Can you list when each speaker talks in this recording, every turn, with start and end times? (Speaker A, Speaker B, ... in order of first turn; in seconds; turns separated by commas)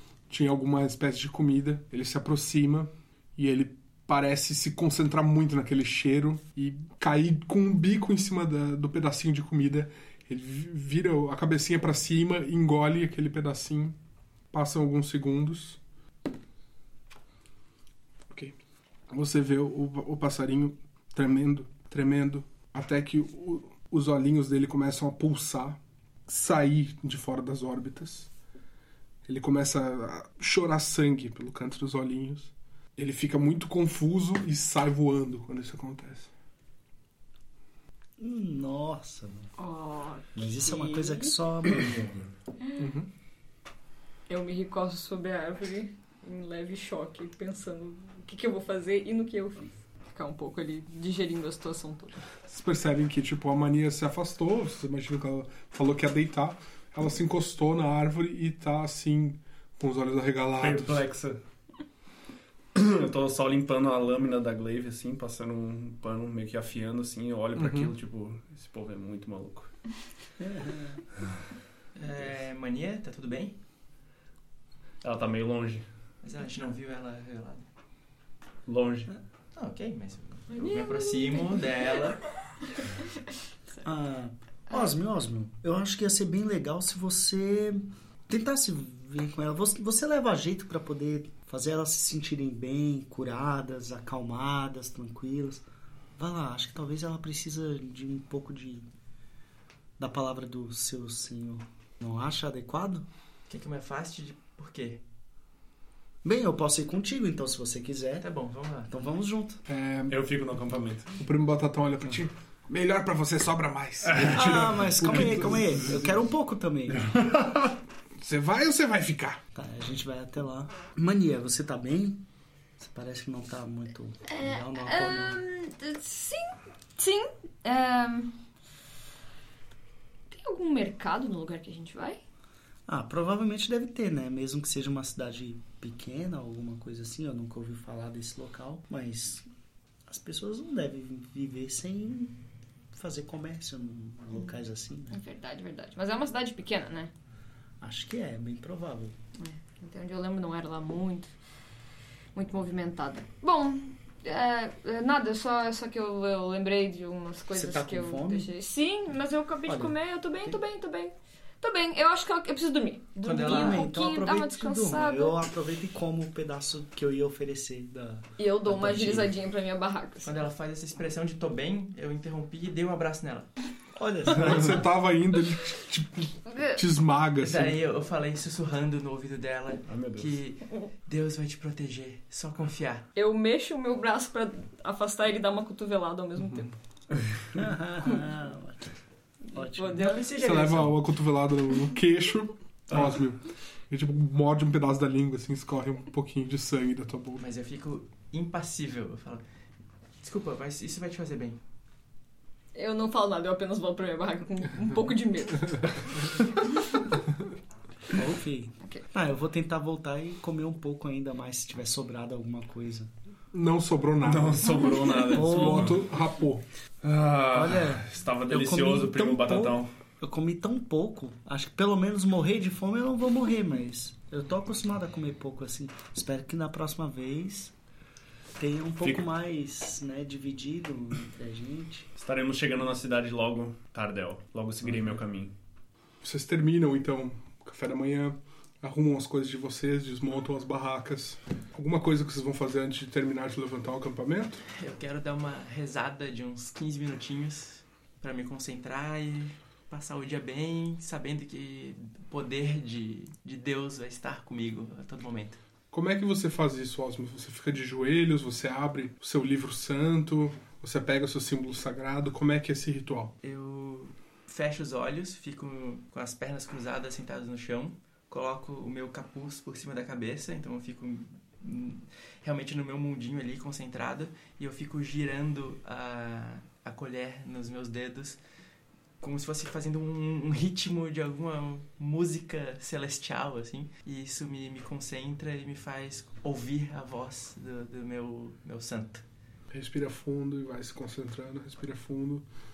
Speaker A: 0.3-13.9, Speaker A: 14.5-15.8, Speaker A: 18.3-18.5, Speaker A: 19.1-28.3, Speaker A: 29.2-36.3, Speaker B: 38.2-39.5, Speaker C: 39.6-41.4, Speaker B: 40.3-42.3, Speaker A: 42.8-43.1, Speaker C: 44.3-52.2, Speaker A: 52.5-61.0, Speaker D: 60.6-61.4, Speaker D: 62.7-69.7, Speaker A: 67.5-67.9, Speaker B: 70.4-71.0, Speaker E: 72.0-73.5, Speaker D: 75.0-75.8, Speaker E: 76.2-77.7, Speaker D: 78.7-79.1, Speaker E: 79.5-82.2, Speaker C: 80.5-81.8, Speaker B: 83.8-95.6, Speaker B: 96.2-98.9, Speaker B: 100.0-103.0, Speaker E: 103.5-105.0, Speaker B: 106.2-108.3, Speaker E: 108.2-108.9, Speaker B: 108.9-109.6, Speaker A: 109.7-110.2, Speaker D: 110.1-111.1, Speaker A: 111.2-116.2, Speaker D: 114.1-114.6, Speaker B: 114.2-117.1, Speaker D: 117.1-117.4, Speaker A: 118.2-119.4, Speaker B: 119.5-122.2, Speaker B: 122.8-125.4, Speaker C: 124.2-128.4, Speaker C: 130.3-132.2, Speaker B: 132.9-139.4, Speaker B: 140.1-142.4, Speaker B: 142.9-145.2, Speaker C: 145.1-147.1, Speaker B: 147.8-149.2, Speaker C: 149.4-151.3, Speaker C: 152.3-165.4, Speaker B: 157.5-158.5, Speaker B: 159.7-159.9, Speaker E: 163.2-163.8, Speaker B: 163.4-169.3, Speaker C: 168.4-170.3, Speaker E: 170.2-173.5, Speaker B: 173.9-174.8, Speaker A: 174.3-177.8, Speaker C: 176.5-176.8, Speaker E: 177.4-183.1, Speaker D: 179.9-180.4, Speaker C: 183.1-186.8, Speaker A: 186.4-186.7, Speaker B: 187.5-188.9, Speaker C: 189.5-190.2, Speaker B: 189.5-190.1, Speaker E: 189.9-191.0, Speaker A: 190.3-197.4, Speaker E: 197.4-199.4, Speaker E: 200.2-201.6, Speaker C: 202.7-207.1, Speaker B: 208.1-213.1, Speaker A: 213.5-216.6, Speaker D: 214.2-216.0, Speaker B: 215.3-216.0, Speaker D: 217.0-219.9, Speaker B: 217.5-227.7, Speaker B: 228.6-232.1, Speaker D: 232.2-235.5, Speaker A: 236.2-244.6, Speaker E: 244.7-255.6, Speaker A: 255.9-263.3, Speaker E: 263.4-278.4, Speaker E: 279.2-289.2, Speaker A: 289.7-292.4